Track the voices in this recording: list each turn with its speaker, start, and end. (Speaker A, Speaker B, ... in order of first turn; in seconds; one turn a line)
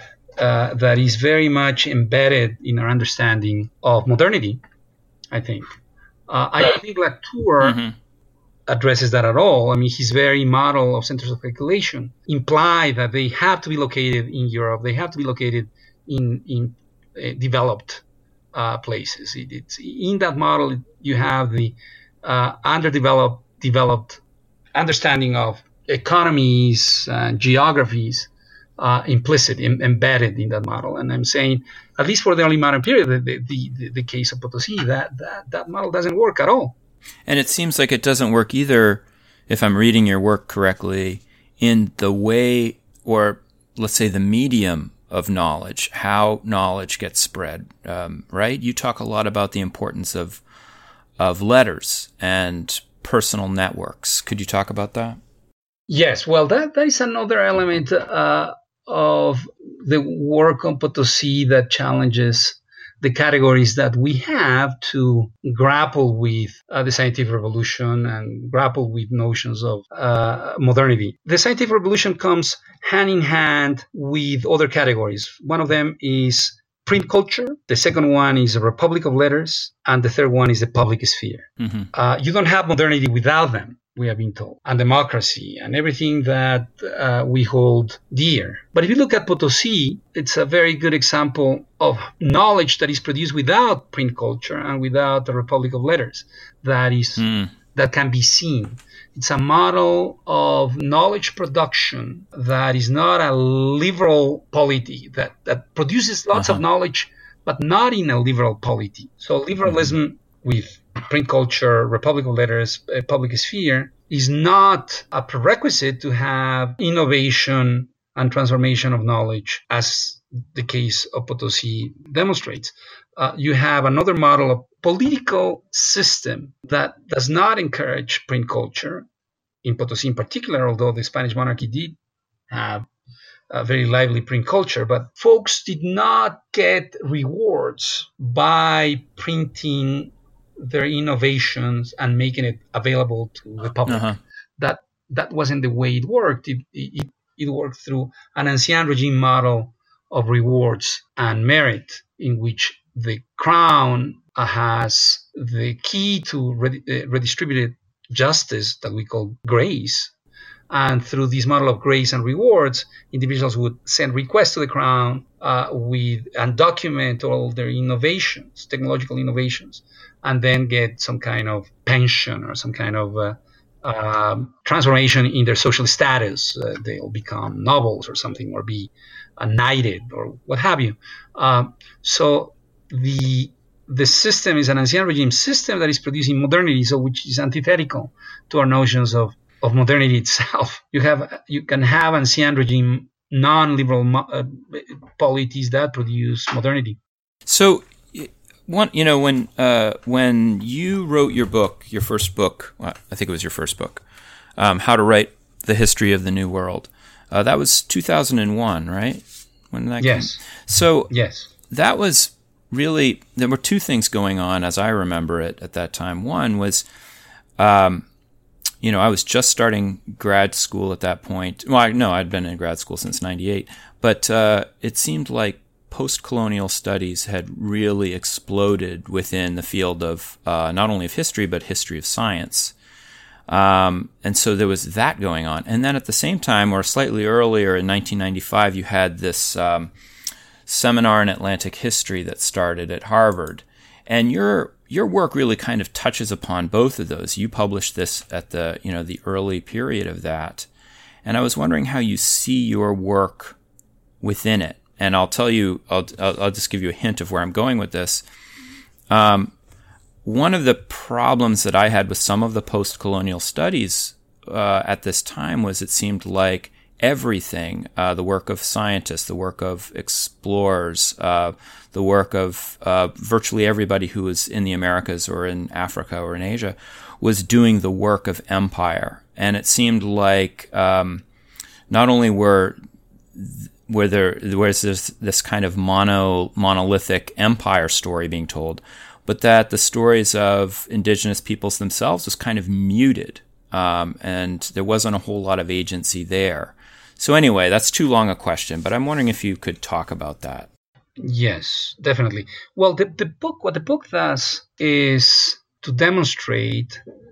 Speaker A: 0.4-4.6
Speaker A: 5.3-5.7
Speaker A: 6.3-7.8
Speaker B: 7.6-7.9
Speaker A: 8.7-24.2
Speaker A: 24.7-36.8
Speaker B: 37.2-50.4
Speaker B: 51.2-55.2
Speaker A: 55.9-129.1
Speaker B: 81.6-81.9
Speaker B: 97.2-97.5
Speaker B: 106.3-106.6
Speaker A: 129.6-132.0
Speaker A: 132.5-132.9
Speaker A: 133.5-160.1
Speaker B: 143.9-144.2
Speaker A: 160.7-197.0
Speaker B: 197.4-204.0
Speaker B: 204.6-211.1
Speaker A: 210.0-210.4
Speaker A: 211.1-211.5
Speaker B: 211.6-216.8
Speaker B: 217.6-218.1
Speaker B: 218.8-232.7
Speaker B: 233.5-239.9
Speaker B: 240.7-250.7
Speaker B: 251.2-253.6
Speaker B: 254.2-258.2
Speaker B: 259.1-259.5
Speaker B: 260.2-281.2
Speaker B: 281.9-282.8
Speaker B: 283.3-300.7
Speaker A: 301.2-307.0